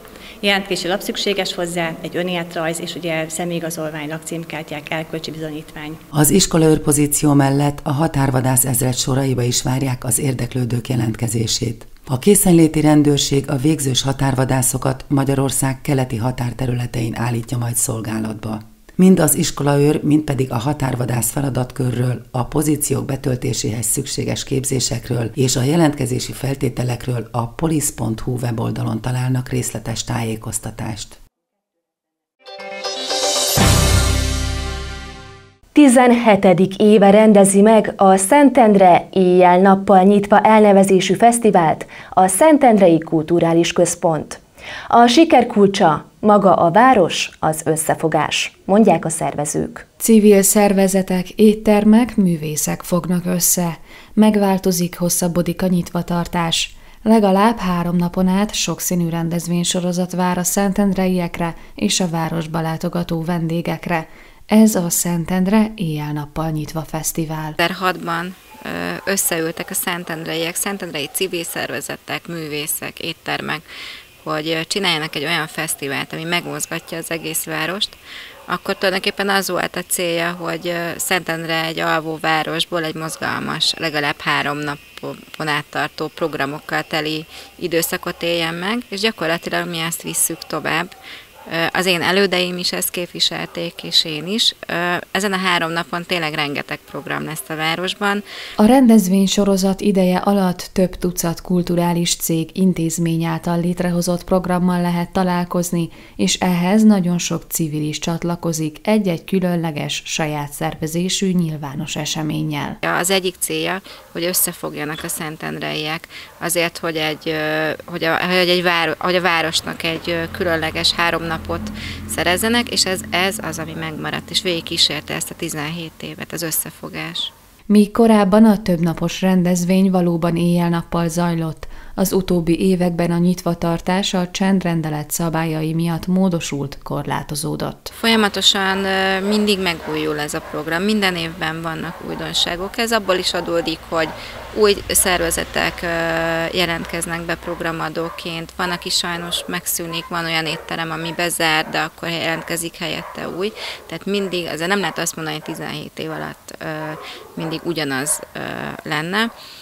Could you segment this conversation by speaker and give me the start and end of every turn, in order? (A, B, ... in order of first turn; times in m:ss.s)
0:00.4-0:06.0 A
0:06.1-0:31.2 B
0:35.7-0:49.8 C
0:50.0-1:07.6 D
1:07.6-1:13.6 E
1:14.2-1:18.0 E
1:18.5-1:30.9 E
1:31.5-1:38.2 E
1:38.6-1:52.8 D
1:52.8-2:07.3 E
2:07.7-2:17.9 D
2:18.0-2:39.3 E